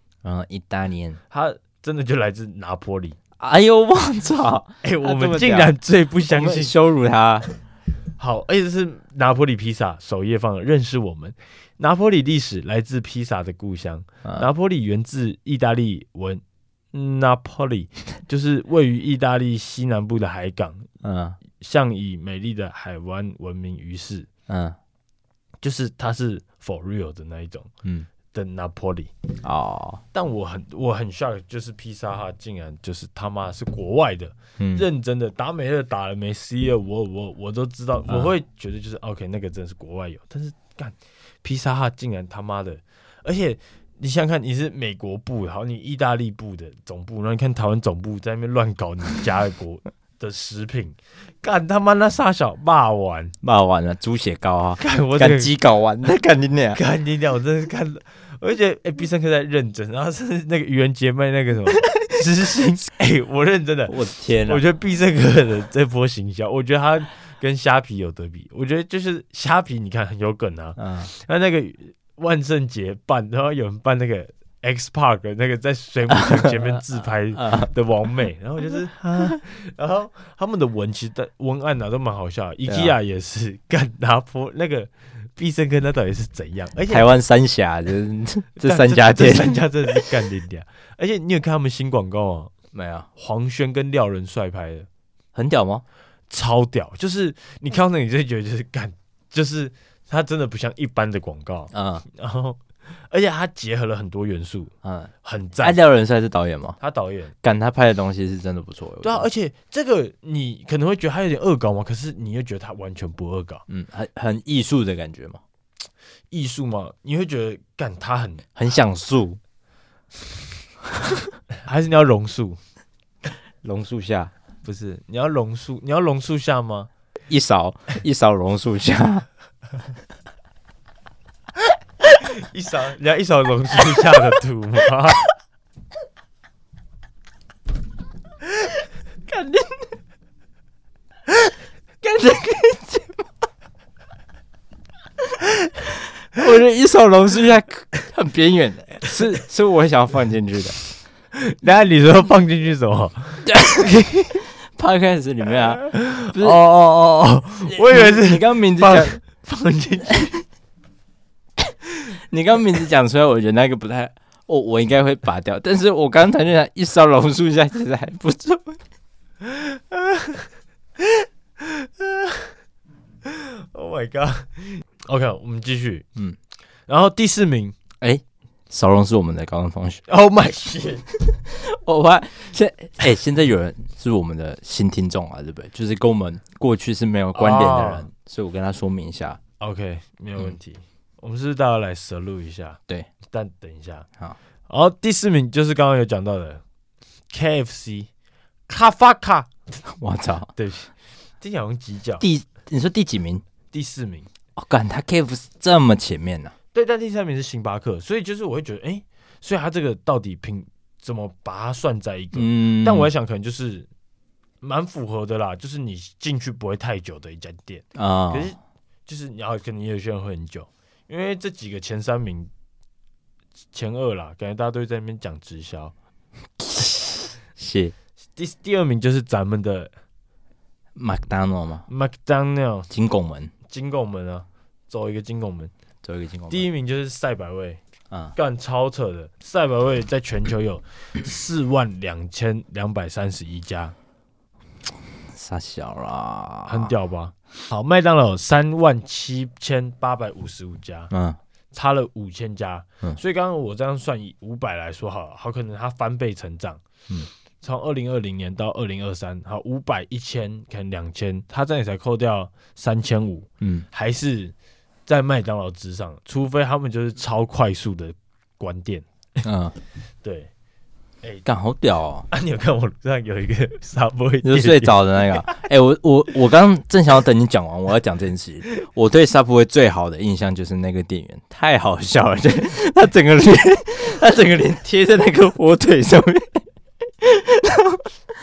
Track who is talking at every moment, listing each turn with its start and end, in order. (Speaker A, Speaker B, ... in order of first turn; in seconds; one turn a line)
Speaker A: 0.2-1.2
Speaker B: 1.3-3.2
Speaker A: 3.4-5.7
Speaker B: 4.8-6.7
Speaker A: 6.3-7.5
Speaker B: 8.2-16.4
Speaker B: 16.9-20.9
Speaker A: 21.0-21.4
Speaker B: 21.6-24.3
Speaker A: 24.5-24.8
Speaker B: 25.6-27.7
Speaker B: 28.3-29.1
Speaker A: 29.4-30.0
Speaker B: 30.1-53.3
Speaker A: 34.6-34.9
Speaker A: 53.4-56.8
Speaker B: 54.8-55.5
Speaker B: 56.7-87.1
Speaker A: 63.9-64.6
Speaker A: 70.8-71.1
Speaker A: 76.4-76.8
Speaker A: 77.3-77.7
Speaker A: 82.7-82.9
Speaker A: 86.9-90.1
Speaker B: 88.6-92.5
Speaker A: 92.7-93.1
Speaker B: 93.2-94.9
Speaker A: 95.3-95.8
Speaker B: 96.3-105.8
Speaker A: 101.7-102.0
Speaker A: 104.8-106.8
Speaker B: 106.8-107.3
Speaker A: 107.4-109.2
Speaker B: 109.0-113.6
Speaker A: 113.7-115.4
Speaker B: 116.3-118.4
Speaker A: 118.5-119.4
Speaker B: 121.6-122.6
Speaker A: 123.6-124.3
Speaker B: 124.6-126.9
Speaker A: 127.3-129.3
Speaker B: 132.0-135.3
Speaker A: 139.3-139.9
Speaker A: 142.0-143.2
Speaker A: 146.3-150.8
Speaker B: 151.3-154.4
Speaker A: 153.5-153.9
Speaker A: 154.6-156.6
Speaker B: 155.8-160.4
Speaker A: 157.7-159.2
Speaker A: 162.1-168.8
Speaker B: 169.4-170.5
Speaker B: 171.0-172.5
Speaker B: 173.2-176.1
Speaker B: 176.9-177.8
Speaker A: 178.0-180.0
Speaker B: 180.1-181.1
Speaker A: 181.5-189.4
Speaker B: 187.3-188.1
Speaker B: 189.6-192.8
Speaker B: 193.3-194.1
Speaker B: 194.7-196.6
Speaker B: 197.3-198.1
Speaker B: 198.7-199.5
Speaker A: 199.8-200.5
Speaker B: 200.6-202.2
Speaker A: 202.2-203.4
Speaker B: 203.7-204.3
Speaker A: 204.6-206.5
Speaker B: 206.7-213.9
Speaker A: 212.3-213.1
Speaker B: 214.6-222.5
Speaker A: 217.9-218.5
Speaker B: 223.7-225.9
Speaker A: 226.6-227.9
Speaker B: 228.3-229.9
Speaker A: 230.9-231.8
Speaker B: 231.9-232.9
Speaker A: 232.9-233.5
Speaker B: 233.7-235.7
Speaker A: 236.0-236.7
Speaker B: 236.5-237.8
Speaker B: 238.3-243.9
Speaker A: 245.3-246.9
Speaker B: 246.7-251.1
Speaker A: 251.1-251.4
Speaker B: 251.7-256.8
Speaker B: 257.6-264.5
Speaker A: 263.6-263.9
Speaker B: 265.1-269.1
Speaker A: 269.4-269.7
Speaker B: 270.2-270.5
Speaker A: 271.4-272.3
Speaker B: 272.3-275.6
Speaker A: 274.4-286.6
Speaker A: 287.2-288.1